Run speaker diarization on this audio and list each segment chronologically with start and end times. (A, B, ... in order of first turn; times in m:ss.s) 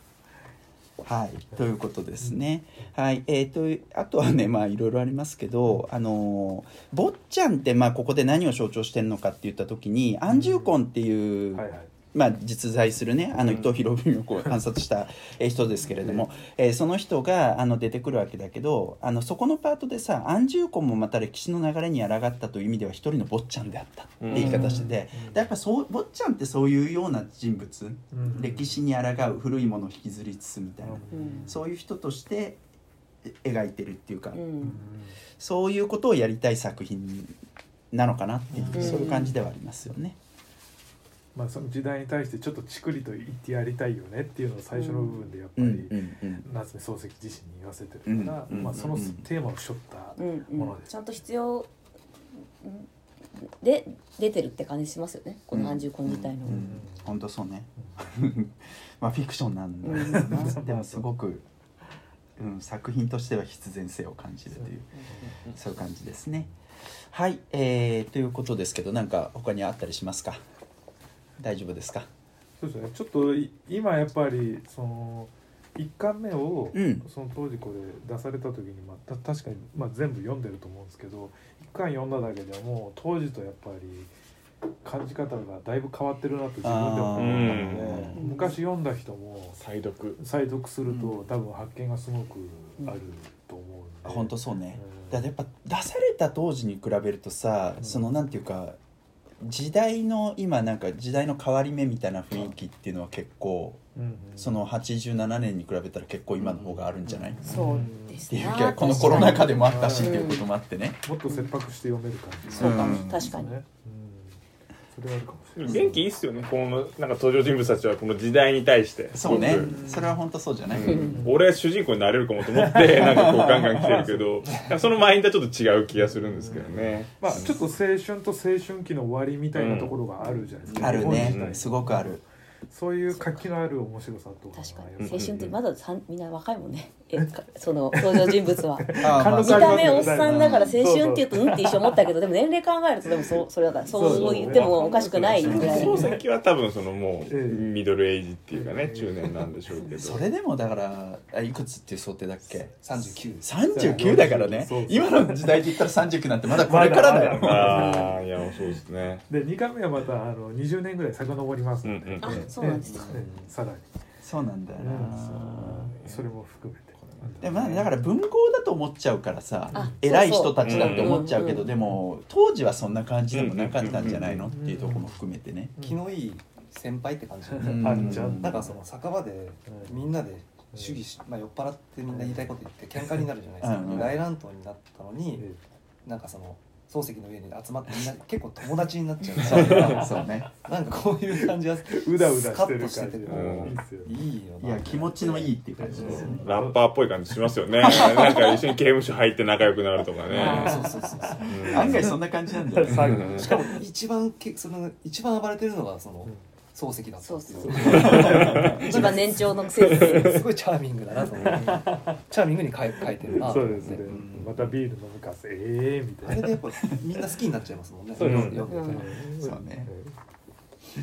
0:01.0-0:32.6 A
0:02.2-0:02.8 B
0:10.3-0:10.7 B
0:11.5-0:11.9 B
0:16.0-0:16.3 B
0:24.2-0:24.7 C
0:24.3-0:24.9 D
0:24.4-0:25.5 B
0:28.1-0:28.8 B
0:30.8-0:31.6 B
0:31.1-0:31.5 D
0:33.2-0:34.4 A
0:34.3-0:34.8 D
0:34.6-0:35.2 B
0:35.4-0:37.4 A
0:37.9-0:40.2 A
0:38.5-0:39.3 B
0:38.7-0:39.4 D
0:41.3-0:50.9 B
0:44.7-0:45.3 D
0:45.6-0:46.4 A
0:48.0-0:49.2 A
0:48.5-0:48.9 C
0:50.2-0:51.7 D
0:52.6-0:52.9 D
0:53.6-0:56.7 D
0:55.5-1:01.4 A
0:56.4-0:57.1 B
0:57.8-0:58.1 B
0:59.8-1:00.6 D
0:59.9-1:01.1 B
1:02.4-1:10.4 A
1:04.6-1:05.4 B
1:11.4-1:12.1 A
1:12.6-1:24.1 B
1:16.7-1:17.0 A
1:24.8-1:29.6 B
1:26.6-1:28.2 A
1:27.2-1:28.1 C
1:28.1-1:28.6 D
1:29.6-1:30.2 C
1:30.2-1:35.2 B
1:30.8-1:31.3 E
1:34.0-1:38.8 A
1:37.8-1:38.1 B
1:39.4-1:43.8 A
1:43.9-1:44.6 B
1:44.4-1:47.7 A
1:46.4-1:47.4 E
1:47.4-1:50.5 D
1:47.4-1:48.2 B
1:48.3-1:51.0 A
1:49.2-1:50.3 B
1:51.0-1:54.4 B
1:51.2-1:51.5 D
1:52.5-1:53.3 A
1:52.5-1:53.6 D
1:54.9-1:56.0 B
1:55.6-1:59.7 C
1:55.6-1:56.0 A
1:59.1-2:01.1 A
1:59.6-2:00.2 B
2:00.7-2:07.6 C
2:00.8-2:01.3 D
2:01.1-2:01.4 B
2:02.6-2:04.4 B
2:02.9-2:04.0 A
2:06.0-2:15.5 B
2:09.5-2:10.0 C
2:10.2-2:10.5 D
2:10.6-2:11.3 E
2:10.8-2:12.2 A
2:10.9-2:11.6 C
2:13.1-2:13.5 D
2:14.5-2:26.1 D
2:15.0-2:15.5 C
2:17.9-2:22.1 B
2:19.0-2:20.8 A
2:23.9-2:26.2 B
2:23.9-2:30.3 C
2:25.4-2:26.1 A
2:27.3-2:27.7 B
2:28.5-2:29.5 B
2:30.0-2:38.1 A
2:32.7-2:33.5 E
2:33.7-2:35.6 B
2:36.5-2:38.2 B
2:37.4-2:39.2 C
2:39.3-2:43.9 B
2:41.8-2:42.5 C
2:42.2-2:43.3 D
2:42.8-2:43.3 E
2:44.2-2:46.2 A
2:44.7-2:47.9 B
2:47.4-2:55.7 A
2:49.7-2:50.0 B
2:49.7-2:51.7 D
2:50.6-2:51.2 C
2:53.3-2:54.5 C
2:54.4-2:55.2 B
2:55.8-2:56.0 B
2:55.8-3:05.4 E
2:57.5-2:58.8 B
2:57.6-2:58.7 A
2:57.9-2:58.4 C
2:59.7-3:00.1 B
3:00.7-3:01.0 B
3:02.1-3:02.5 B
3:03.6-3:04.2 A
3:06.0-3:16.4 E
3:09.4-3:10.2 B
3:09.4-3:10.5 A
3:11.3-3:14.2 B
3:13.2-3:13.8 C
3:14.1-3:16.4 A
3:15.8-3:16.8 B
3:15.9-3:20.8 C
3:17.8-3:18.6 A
3:20.3-3:22.0 E
3:20.4-3:20.8 D
3:20.4-3:23.8 B
3:21.4-3:22.1 C
3:21.7-3:23.4 A
3:22.9-3:23.5 C
3:23.4-3:34.6 E
3:27.2-3:30.4 D
3:27.6-3:29.0 B
3:27.8-3:28.8 C
3:28.0-3:28.5 A
3:29.8-3:30.2 B
3:29.8-3:30.3 C
3:31.5-3:32.2 B
3:33.3-3:36.5 B
3:36.2-3:39.2 E
3:38.1-3:40.2 B
3:38.2-3:38.7 C
3:38.7-3:39.1 D
3:39.4-3:39.9 A